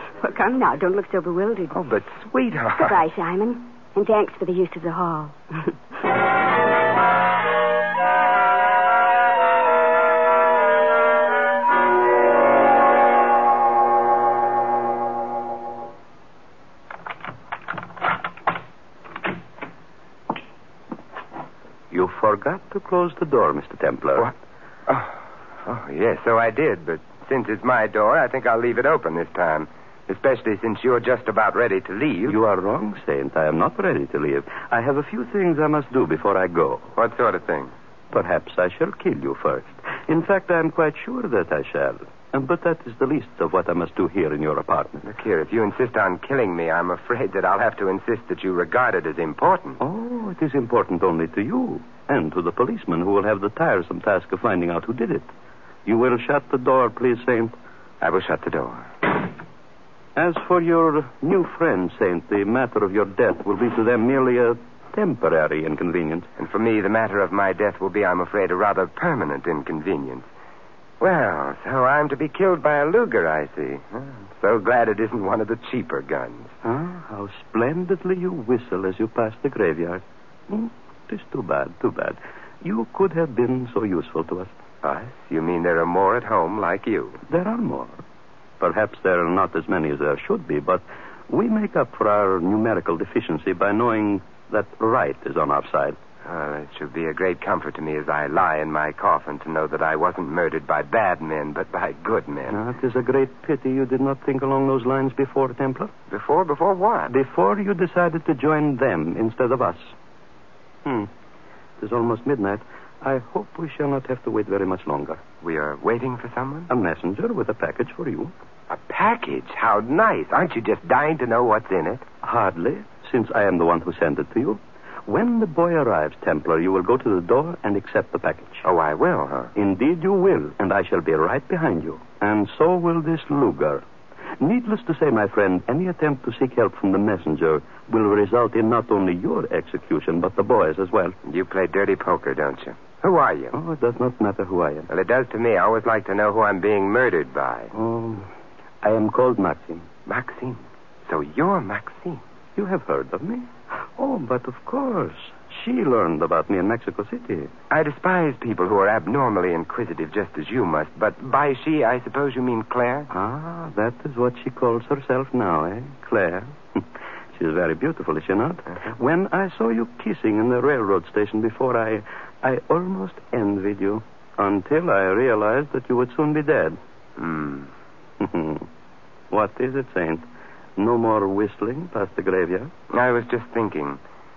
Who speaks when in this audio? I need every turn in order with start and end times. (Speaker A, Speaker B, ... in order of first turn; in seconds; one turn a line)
Speaker A: 0.2-1.8
Speaker B: 1.7-3.0
Speaker A: 2.8-5.7
Speaker C: 21.9-24.3
Speaker B: 24.9-32.4
Speaker C: 32.2-36.9
Speaker B: 37.0-37.7
Speaker C: 38.1-45.0
Speaker B: 45.0-49.8
Speaker C: 49.8-55.3
Speaker C: 55.8-57.5
Speaker B: 58.0-58.9
Speaker C: 60.1-66.3
Speaker B: 66.4-70.3
Speaker B: 71.0-76.5
Speaker C: 76.6-84.5
Speaker B: 84.8-87.2
Speaker C: 87.3-88.0
Speaker C: 88.6-96.0
Speaker B: 96.2-102.6
Speaker C: 102.5-105.9
Speaker B: 106.1-107.1
Speaker C: 107.1-109.9
Speaker C: 110.8-111.1
Speaker C: 111.8-115.2
Speaker B: 115.4-116.7
Speaker C: 116.7-118.3
Speaker B: 118.7-122.0
Speaker C: 122.2-128.7
Speaker B: 128.6-129.5
Speaker C: 129.6-133.8
Speaker C: 134.4-141.2
Speaker B: 141.2-143.5
Speaker C: 143.5-144.9
Speaker B: 144.9-147.7
Speaker C: 147.7-148.3
Speaker C: 148.8-149.8
Speaker B: 150.1-152.2
Speaker C: 152.6-157.5
Speaker B: 157.7-163.1
Speaker C: 163.1-176.8
Speaker B: 177.2-177.7
Speaker C: 178.2-178.7
Speaker C: 179.3-180.2
Speaker C: 180.8-182.7
Speaker B: 182.9-184.0